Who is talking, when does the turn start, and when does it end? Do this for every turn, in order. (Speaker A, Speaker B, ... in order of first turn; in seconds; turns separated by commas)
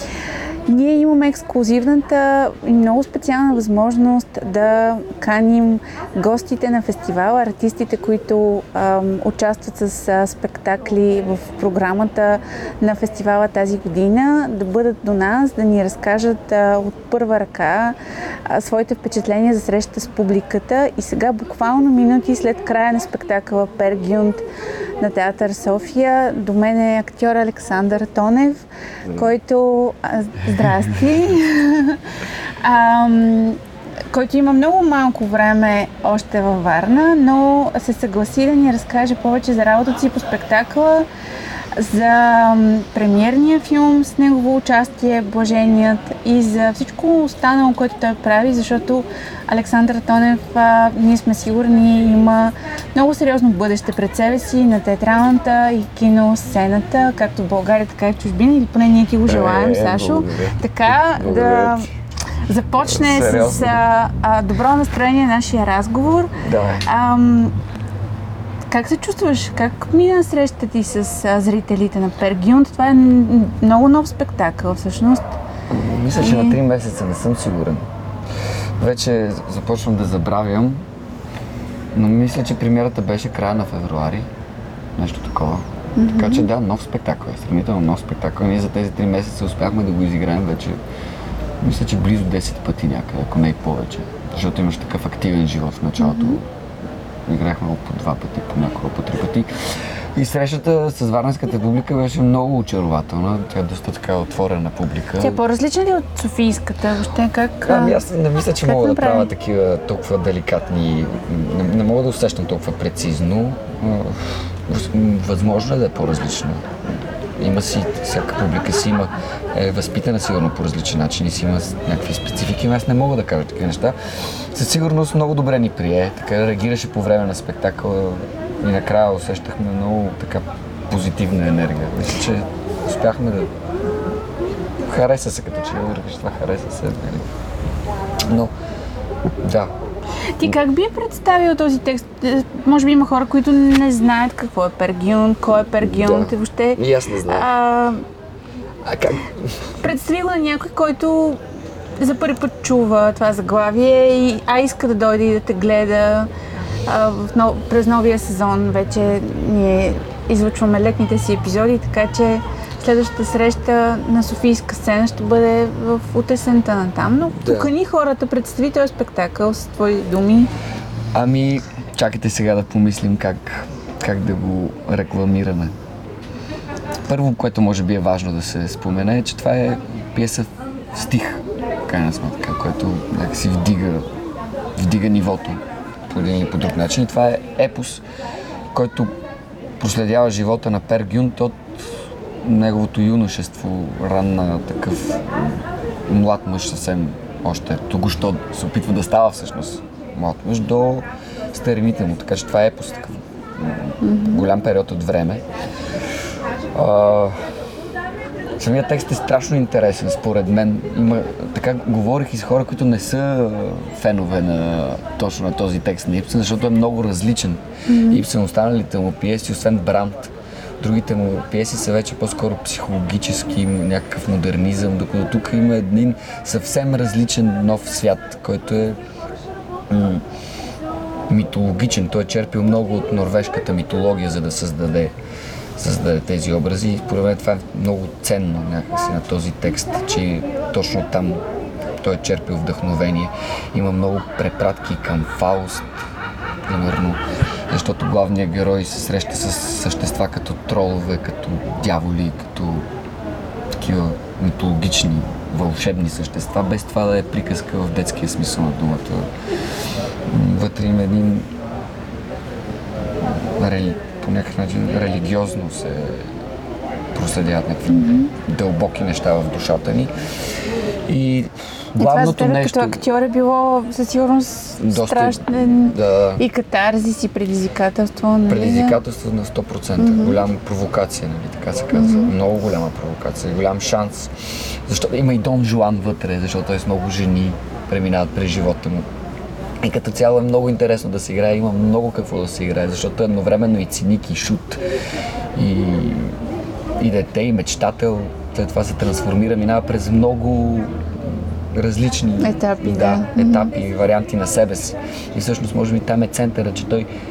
Speaker A: 0.7-24.4, Speaker A: 25.0-32.0, Speaker B: 30.6-31.0, Speaker A: 32.6-41.1, Speaker A: 41.7-61.9, Speaker B: 59.2-61.9, Speaker A: 62.5-67.5, Speaker B: 62.8-63.8, Speaker B: 66.4-66.8, Speaker A: 68.7-75.3, Speaker B: 75.7-77.8, Speaker A: 76.2-76.6, Speaker B: 78.8-80.8, Speaker B: 81.9-84.3, Speaker B: 85.0-90.8, Speaker A: 86.0-86.5, Speaker B: 91.6-96.5, Speaker A: 96.0-96.4, Speaker B: 97.2-105.4, Speaker A: 105.2-108.0, Speaker B: 107.7-116.7, Speaker A: 108.6-109.3, Speaker B: 117.4-133.5, Speaker B: 134.8-137.3, Speaker B: 138.3-138.5, Speaker B: 139.4-139.7, Speaker A: 140.3-148.0, Speaker B: 145.8-147.5, Speaker B: 148.8-149.8, Speaker A: 149.8-151.4, Speaker A: 152.0-156.3, Speaker A: 156.8-170.5, Speaker B: 167.3-167.7, Speaker B: 171.1-175.7, Speaker B: 177.1-184.1, Speaker B: 184.8-188.0, Speaker B: 188.7-189.1, Speaker B: 189.8-191.9, Speaker B: 192.4-205.4, Speaker A: 204.0-204.4, Speaker B: 206.7-207.3, Speaker B: 208.6-229.0, Speaker A: 217.9-218.2, Speaker B: 229.9-230.2, Speaker B: 231.3-235.1, Speaker B: 235.8-241.4, Speaker B: 242.0-245.9, Speaker B: 246.7-252.8, Speaker B: 253.8-259.3, Speaker B: 260.2-261.5, Speaker B: 263.2-266.3, Speaker B: 267.1-270.1, Speaker A: 267.9-268.3, Speaker B: 271.1-273.0, Speaker A: 272.0-279.0, Speaker B: 274.8-276.4, Speaker B: 278.5-289.1, Speaker A: 280.0-280.4, Speaker A: 281.9-282.3, Speaker B: 289.8-294.8, Speaker B: 295.5-296.4, Speaker B: 297.0-307.1, Speaker A: 302.4-303.7